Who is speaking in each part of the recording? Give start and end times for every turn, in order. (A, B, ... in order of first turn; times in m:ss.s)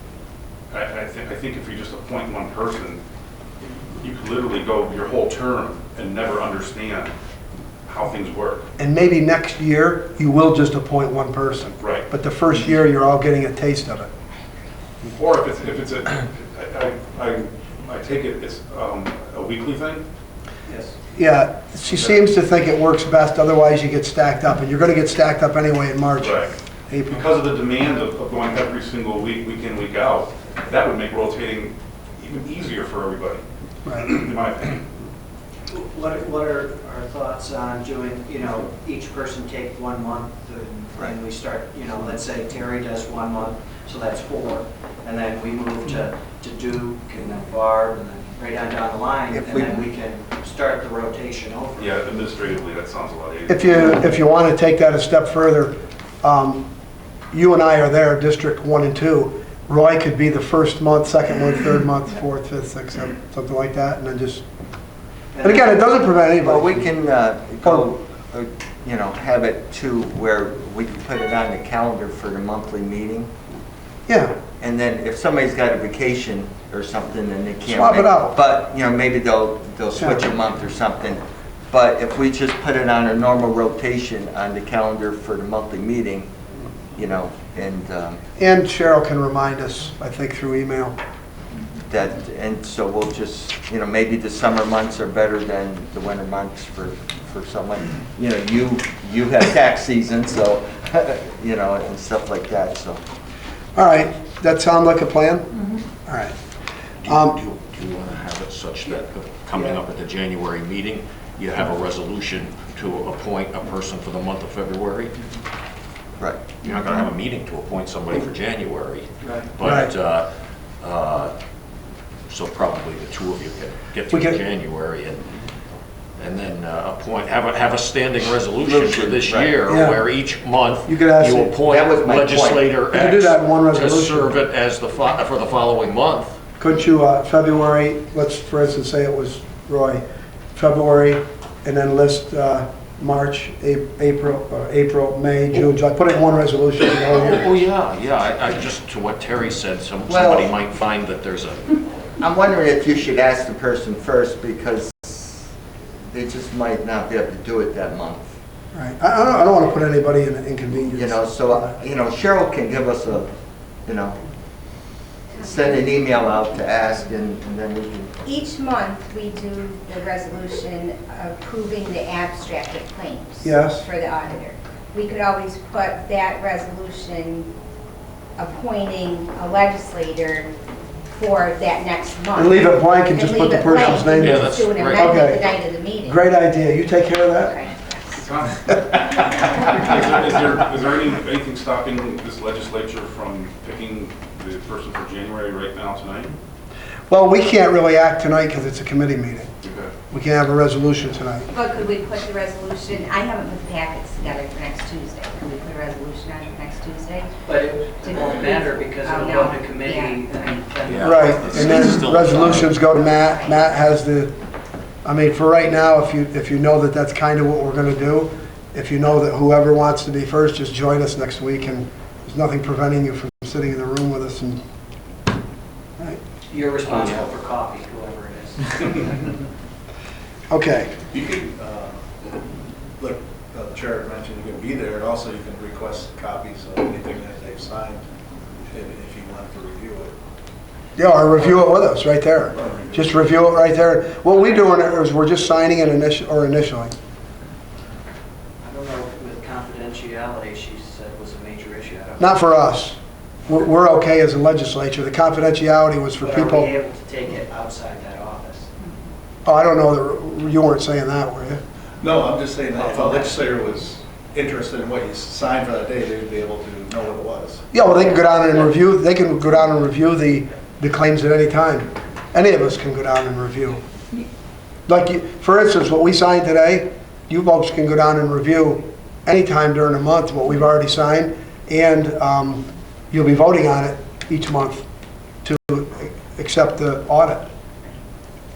0:00.7-0:03.0 A
0:04.0-0:07.1 A
0:07.8-0:08.6 A
0:08.8-0:14.1 B
0:11.8-0:12.1 A
0:15.1-0:20.0 A
0:20.7-0:20.9 C
0:21.1-0:27.2 B
0:26.2-0:26.5 A
0:27.1-0:34.8 A
0:35.7-0:51.9 C
0:49.3-0:49.8 D
0:51.8-0:53.9 A
0:53.5-0:56.7 B
0:57.3-1:04.4 B
1:05.3-1:05.9 C
1:05.4-1:06.9 B
1:06.4-1:13.3 D
1:07.6-1:07.9 B
1:14.1-1:14.4 B
1:14.6-1:26.3 D
1:17.6-1:18.4 B
1:20.0-1:20.3 B
1:26.9-1:28.2 D
1:28.4-1:31.0 B
1:31.9-1:43.0 D
1:43.7-1:46.3 B
1:47.0-1:55.1 E
1:47.0-1:47.4 B
1:56.6-2:00.3 E
1:59.2-1:59.5 C
1:59.6-1:59.9 B
2:00.8-2:01.3 E
2:02.3-2:05.2 E
2:04.1-2:04.4 B
2:06.2-2:16.4 E
2:08.6-2:09.6 D
2:09.7-2:10.0 B
2:10.8-2:11.6 B
2:11.7-2:12.7 D
2:12.9-2:14.3 B
2:16.6-2:20.0 B
2:20.5-2:27.5 B
2:27.1-2:31.8 E
2:30.1-2:30.5 D
2:32.2-2:35.5 D
2:36.1-2:38.3 D
2:38.7-2:41.8 B
2:40.9-2:43.3 D
2:43.8-2:44.2 D
2:45.4-2:46.1 F
2:45.4-2:48.2 D
2:48.2-2:57.5 F
2:53.4-2:53.8 B
2:58.4-3:00.5 F
3:01.1-3:06.2 F
3:02.4-3:05.4 B
3:03.8-3:05.3 E
3:06.0-3:07.6 B
3:07.4-3:08.2 F
3:08.2-3:16.3 A
3:17.1-3:19.5 B
3:19.6-3:19.9 A
3:20.1-3:21.5 B
3:21.5-3:27.4 F
3:27.5-3:31.6 C
3:28.0-3:30.7 F
3:30.8-3:32.7 E
3:31.0-3:34.3 B
3:32.9-3:33.7 F
3:35.0-3:44.6 B
3:46.5-3:49.3 C
3:50.5-3:50.9 B
3:51.1-3:52.0 G
3:53.0-3:58.0 G
3:58.7-4:00.1 G
4:01.0-4:06.9 B
4:08.6-4:12.6 C
4:12.2-4:16.7 B
4:16.2-4:18.7 C
4:19.4-4:21.6 B
4:22.0-4:27.6 G
4:22.8-4:23.4 C
4:27.7-4:33.8 B
4:34.9-4:44.8 B
4:45.4-4:47.4 B